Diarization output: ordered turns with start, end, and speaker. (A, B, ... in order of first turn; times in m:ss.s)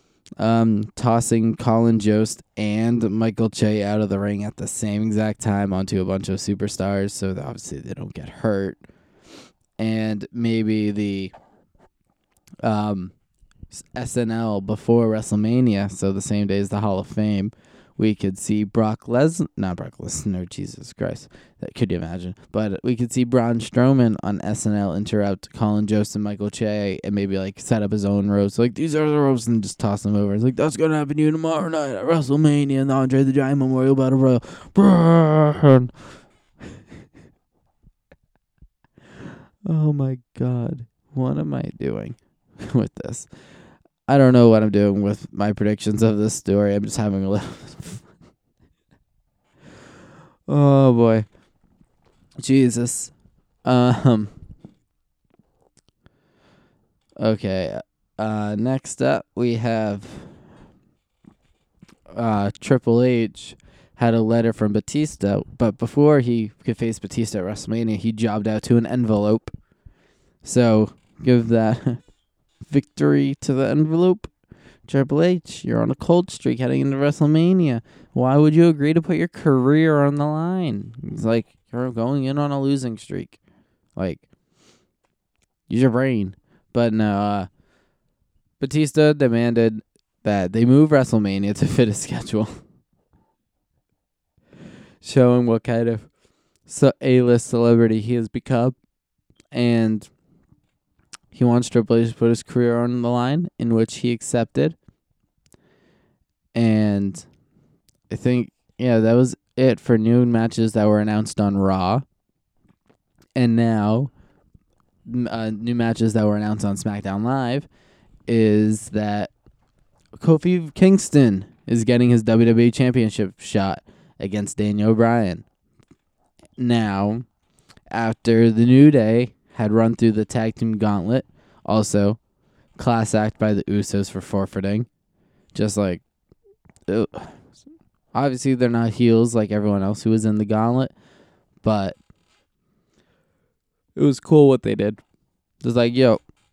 0:00.4-0:08.8 A
0:09.8-0:11.3 A
0:12.6-0:13.1 A
0:13.7-0:35.9 A
0:39.6-0:43.3 A
0:44.1-0:48.0 A
0:50.5-0:51.3 A
0:52.4-0:53.1 A
0:53.6-0:54.3 A
0:57.2-1:00.4 A
1:02.1-1:09.5 A
1:10.4-1:12.0 A
1:12.7-1:14.3 A
1:14.9-1:23.4 A
1:24.0-1:24.3 A
1:25.7-1:27.5 A
1:28.6-1:32.6 A
1:35.0-1:36.1 A
1:36.7-1:38.8 A
1:39.5-1:40.1 A
1:41.3-1:44.8 A
1:46.5-1:47.3 A
1:48.1-1:52.0 A
1:53.4-1:54.1 A
1:55.1-1:57.7 A
1:58.3-1:59.3 A
2:00.2-2:05.5 A
2:06.6-2:07.3 A
2:07.9-2:12.2 A
2:12.8-2:14.9 A
2:15.5-2:16.0 A
2:16.9-2:17.4 A
2:18.1-2:20.9 A
2:21.6-2:22.0 A
2:24.0-2:25.0 A
2:25.6-2:26.2 A